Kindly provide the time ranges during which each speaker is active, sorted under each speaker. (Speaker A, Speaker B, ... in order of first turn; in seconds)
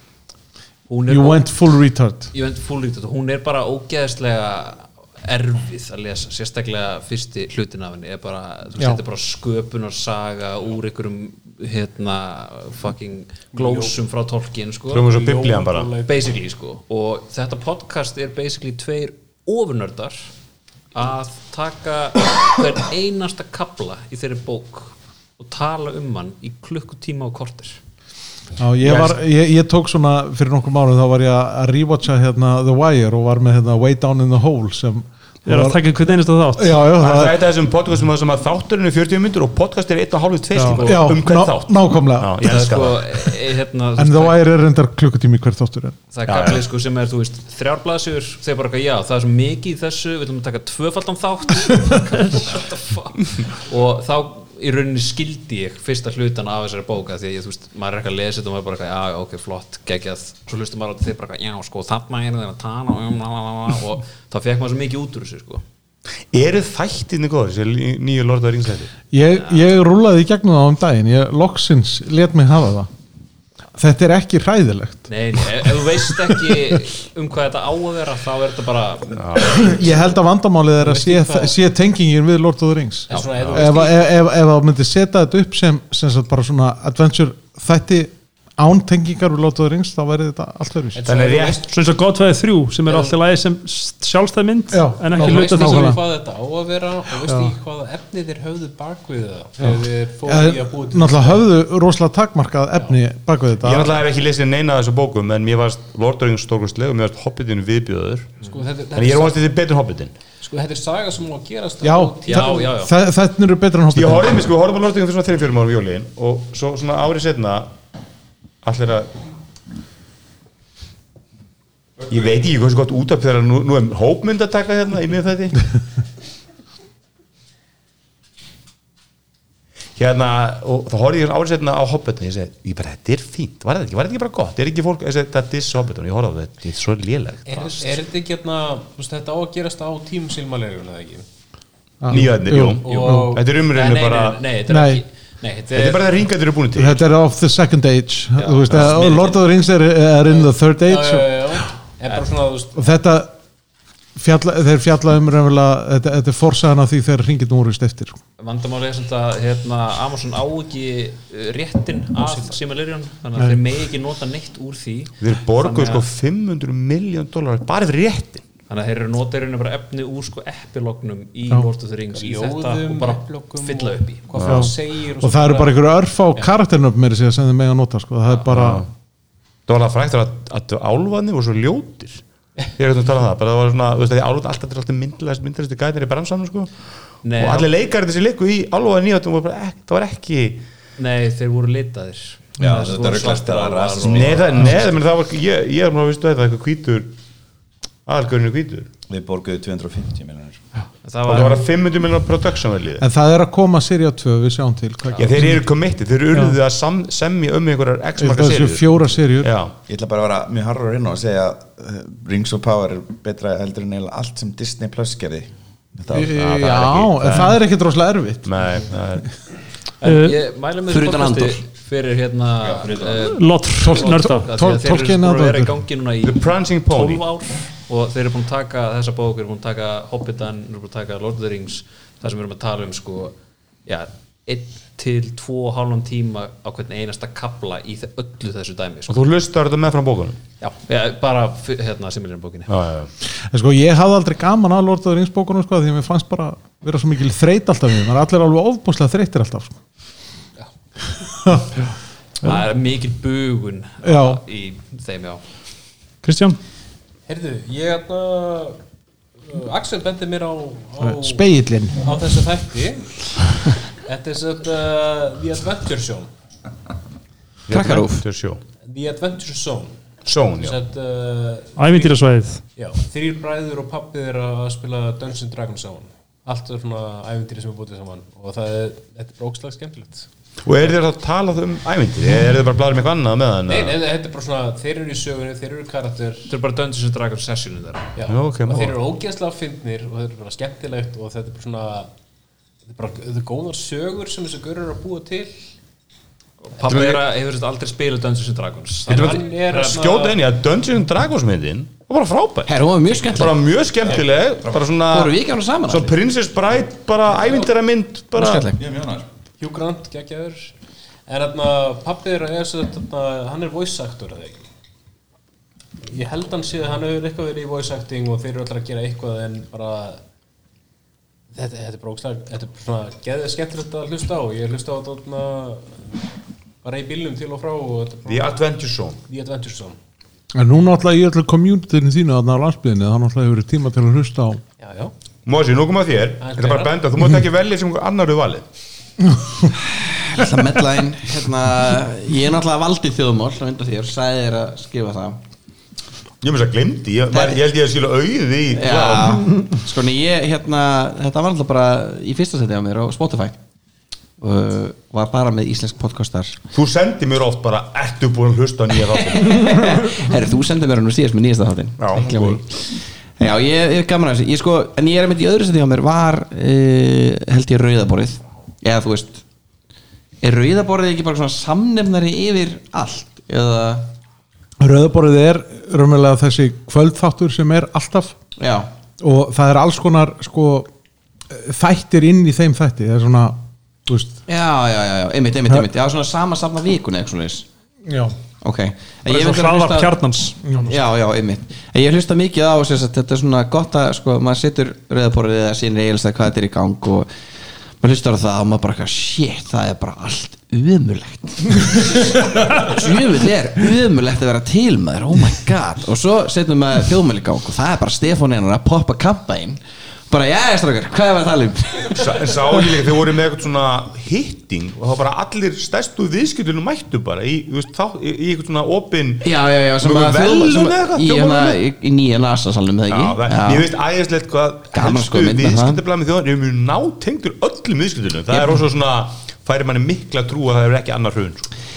Speaker A: 0.9-1.5, 2.3-15.0, 16.1-20.3, 20.9-27.8, 40.7-41.0, 42.4-44.4, 46.1-65.6, 75.1-79.7, 112.3-112.9, 142.9-146.1, 148.3-149.4, 158.4-166.1, 168.7-174.3, 187.2-187.7, 191.0-194.8, 201.0-201.6, 220.0-233.3, 233.8-239.3, 240.6-242.7, 252.4-255.4, 286.5-288.1, 296.8-300.0
Speaker B: 1.1-2.3, 28.6-35.8, 36.5-37.4, 40.8-42.3, 44.0-46.0, 69.1-72.9, 73.8-76.8, 79.4-91.0, 94.7-96.0, 97.3-97.5, 99.6-104.0, 111.8-114.5, 142.0-143.4, 144.7-145.0, 146.7-151.6, 152.8-153.3, 154.2-158.2, 174.5-178.8, 203.0-205.6, 208.2-209.5, 216.1-218.7, 223.8-225.8, 243.5-249.8, 251.4-251.7, 254.0-254.4, 261.0-262.0, 330.5-334.6, 374.8-378.4, 379.2-380.9, 381.5-384.4, 388.0-388.3, 390.6-391.0
Speaker C: 13.5-13.9, 15.0-16.4, 80.8-81.5, 83.1-84.0, 90.9-91.7, 92.8-93.2, 95.1-101.5, 108.4-109.5, 110.4-112.8, 137.4-141.2, 142.8-143.4, 150.8-152.8, 162.2-162.6, 172.1-175.8, 257.3-258.8, 259.4-263.2, 264.0-266.3, 268.8-270.0, 270.5-272.2, 272.8-280.3, 283.7-286.5, 288.1-292.1, 292.9-295.5, 299.1-300.4, 309.6-310.7, 311.3-314.6, 316.0-320.2, 321.5-326.2, 326.8-328.6, 329.3-330.0, 334.8-335.1, 336.4-337.0
Speaker D: 14.9-15.9, 28.8-29.2, 37.0-43.3, 46.2-46.6, 66.3-68.9, 79.1-79.7, 83.1-83.8, 91.0-91.6, 103.6-110.1, 113.9-117.7, 118.6-119.1, 122.1-125.6, 129.9-137.9, 142.1-144.4, 145.7-147.1, 148.7-149.0, 165.2-168.4, 174.3-174.7, 178.5-178.9, 179.7-182.2, 182.7-186.7, 187.3-190.6, 194.0-197.1, 198.1-198.9, 201.3-203.0, 205.2-209.7, 216.2-217.6, 218.4-219.3, 226.2-227.2, 239.1-240.4, 242.7-243.1, 267.7-268.6, 270.2-270.8, 280.6-284.0, 288.3-289.0, 296.9-297.2, 299.1-308.7, 328.2-329.2, 335.4-338.6, 346.4-349.6, 356.7-359.7, 362.0-362.6, 412.1-421.8, 423.1-431.7
Speaker E: 35.5-36.8, 91.7-95.9, 220.0-220.4, 223.2-224.5, 256.2-256.6, 271.8-272.6, 389.2-390.6
Speaker F: 192.6-194.9, 199.1-200.6, 209.9-216.3, 222.6-223.3, 304.0-304.8, 308.7-309.2
Speaker G: 220.9-221.6, 267.7-268.2, 302.7-303.6, 305.1-306.1, 308.3-308.8, 340.0-345.4, 347.3-347.6, 348.7-353.6, 354.4-356.6, 359.1-362.8, 363.4-369.4, 370.4-374.1, 378.6-378.9, 384.5-387.6, 388.6-390.1, 390.8-397.3, 398.0-412.8, 419.4-423.9, 424.9-426.0, 428.5-428.8